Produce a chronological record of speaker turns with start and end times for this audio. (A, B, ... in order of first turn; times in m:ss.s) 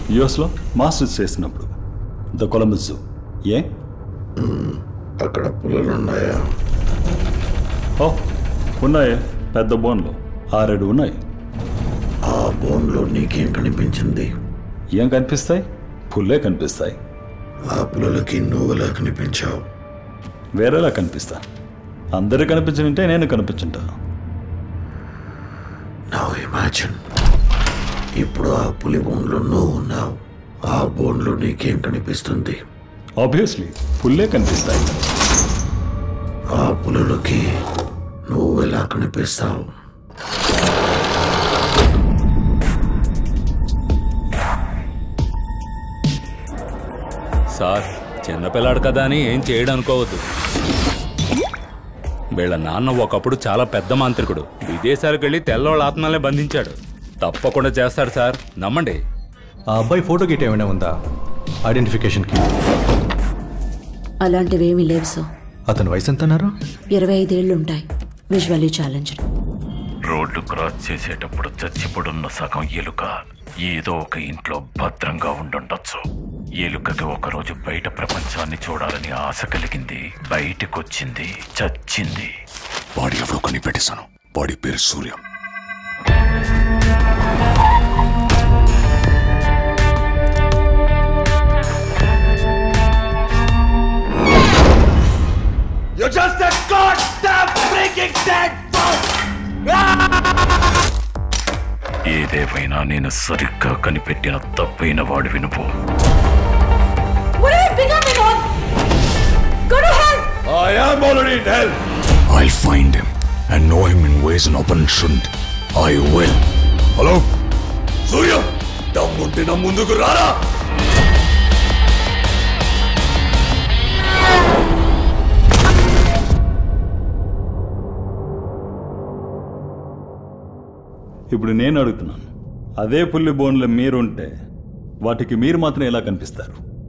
0:00.1-0:01.7 A
0:02.3-0:03.7 A
0:04.4-0:06.5 B
0:08.0-0:08.3 A
0:08.8-0:11.2 A
0:12.3-0:14.3 B
0:14.9-0:17.0 A
0:17.7-0:19.6 B
0:20.6-0:21.4 A
0:22.1-0:23.9 A
0:26.1-0:27.0 B
0:28.2-0:30.2 B
0:30.7-0:32.6 B
0:33.2-0:35.0 A
0:36.5-0:37.4 B
0:38.3-0:39.7 B
0:47.6-0:50.2 C
0:52.4-0:59.0 C
0:59.7-1:00.9 D
1:01.7-1:02.5 D
1:04.2-1:05.2 E
1:05.7-1:06.5 D
1:06.9-1:09.2 E
1:10.1-1:16.0 F
1:16.6-1:22.3 F
1:23.0-1:25.2 G
1:42.1-1:45.7 F
1:47.4-1:48.4 E
1:49.7-1:50.3 E
1:50.5-1:51.8 G
1:52.3-1:56.4 G
1:57.0-1:57.3 G
1:58.1-2:00.4 G
2:11.3-2:14.3 A
2:15.0-2:16.6 A